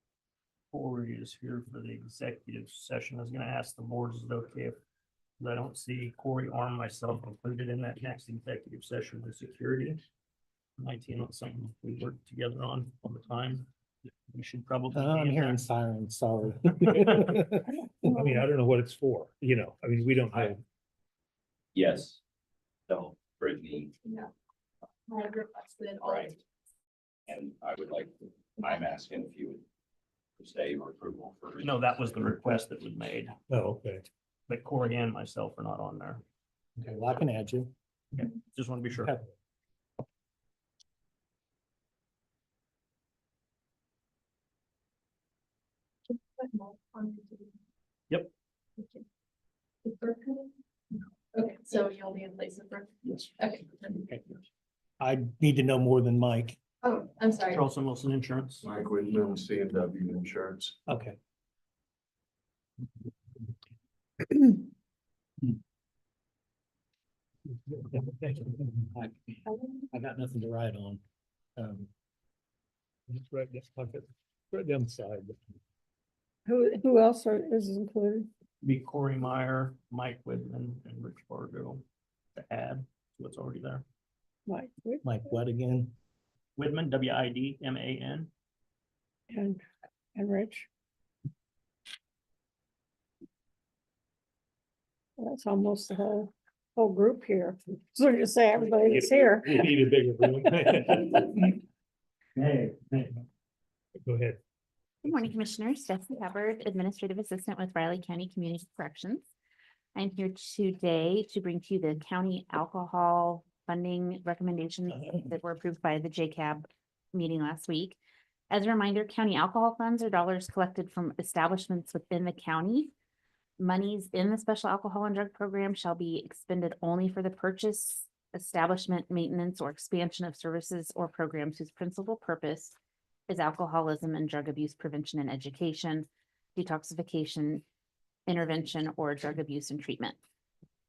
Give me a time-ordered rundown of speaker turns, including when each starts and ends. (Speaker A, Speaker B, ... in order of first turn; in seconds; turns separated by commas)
Speaker A: 0.7-4.8, Speaker A: 5.4-10.0, Speaker A: 10.8-13.7, Speaker A: 14.3-15.6, Speaker B: 14.9-17.4, Speaker C: 16.6-20.6, Speaker D: 21.8-22.2, Speaker D: 22.9-23.9, Speaker E: 24.0-24.3, Speaker E: 25.1-26.4, Speaker D: 26.0-26.3, Speaker D: 27.3-29.6, Speaker D: 30.4-32.2, Speaker A: 31.6-33.4, Speaker C: 33.5-34.1, Speaker A: 34.5-36.2, Speaker B: 36.8-37.7, Speaker A: 38.2-39.1, Speaker B: 39.0-39.3, Speaker E: 46.6-47.5, Speaker E: 49.8-50.5, Speaker E: 51.3-54.1, Speaker B: 55.0-56.6, Speaker E: 56.8-57.6, Speaker A: 57.5-58.7, Speaker F: 58.6-60.8, Speaker B: 60.9-61.2, Speaker C: 67.7-68.8, Speaker B: 68.9-69.4, Speaker B: 69.9-71.0, Speaker B: 71.6-71.9, Speaker C: 73.1-75.4, Speaker G: 76.5-78.3, Speaker A: 78.6-81.8, Speaker A: 82.4-83.8, Speaker G: 84.5-85.2, Speaker B: 85.0-85.9, Speaker A: 86.6-88.3, Speaker G: 89.3-89.6, Speaker G: 90.2-90.7, Speaker G: 95.2-99.6, Speaker C: 98.6-101.6, Speaker A: 102.4-103.2, Speaker C: 104.0-104.4, Speaker H: 105.0-109.2, Speaker H: 110.0-118.0, Speaker H: 118.5-122.9, Speaker H: 123.6-132.8, Speaker H: 133.3-137.6, Speaker H: 138.3-140.2